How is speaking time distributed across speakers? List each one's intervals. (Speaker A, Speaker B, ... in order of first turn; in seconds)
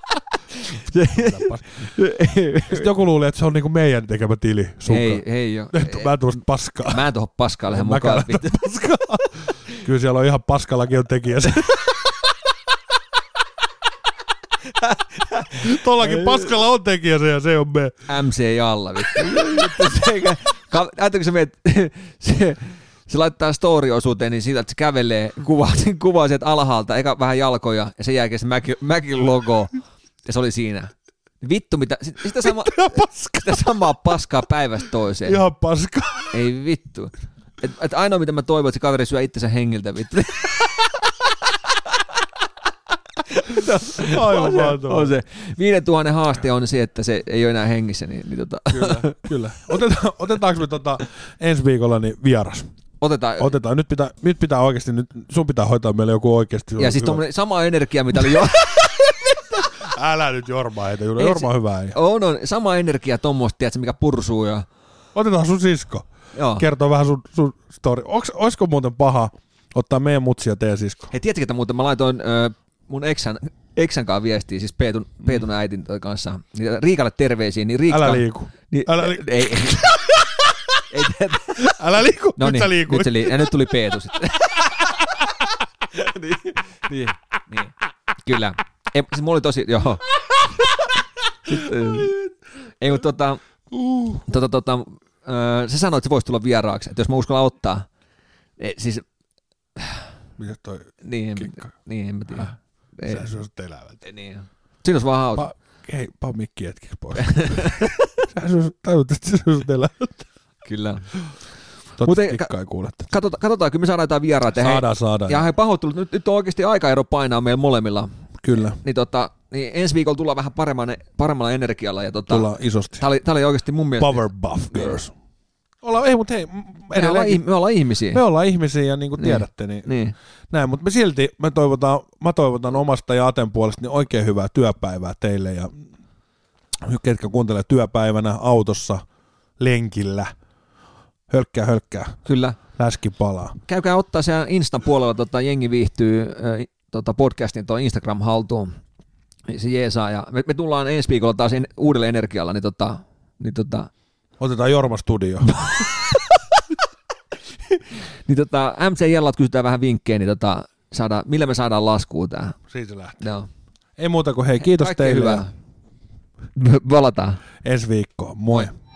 Speaker A: 0.5-2.9, 4.9-8.6, 14.7-16.5, 18.1-35.4, 36.3-40.9, 43.3-49.2, 53.0-53.6, 56.8-59.0, 61.2-64.7, 66.3-66.7, 71.1-79.9, 80.9-81.7, 82.4-84.8, 85.9-90.1, 91.5-92.1, 92.8-93.4, 94.2-97.9, 98.6-99.0, 99.8-100.1, 101.0-103.3, 104.0-105.5, 107.2-108.1, 110.7-111.1, 112.0-112.5, 113.1-118.1, 118.7-125.0, 126.9-128.2, 129.2-130.2, 142.3-142.6, 143.7-148.8, 149.5-153.9, 155.6-156.4, 157.7-162.6, 163.2-163.5, 164.6-165.5, 166.6-167.4
Speaker B: 1.0-1.9, 2.7-7.0, 7.7-11.9, 15.6-18.0, 32.4-33.6, 35.2-36.4, 44.0-45.1, 48.7-52.7, 53.4-57.2, 59.8-62.0, 65.2-71.1, 77.9-80.8, 81.6-83.9, 91.5-92.3, 93.7-94.2, 100.4-101.6, 103.0-104.0, 105.4-110.2, 112.0-113.1, 114.5-115.5, 118.4-118.8, 122.3-123.0, 124.0-125.1, 125.8-127.5, 128.1-129.9, 130.5-135.8, 136.8-139.0, 139.6-140.3, 141.3-142.2, 142.8-143.6, 154.4-155.9, 162.7-163.2, 164.0-165.5, 167.6-168.7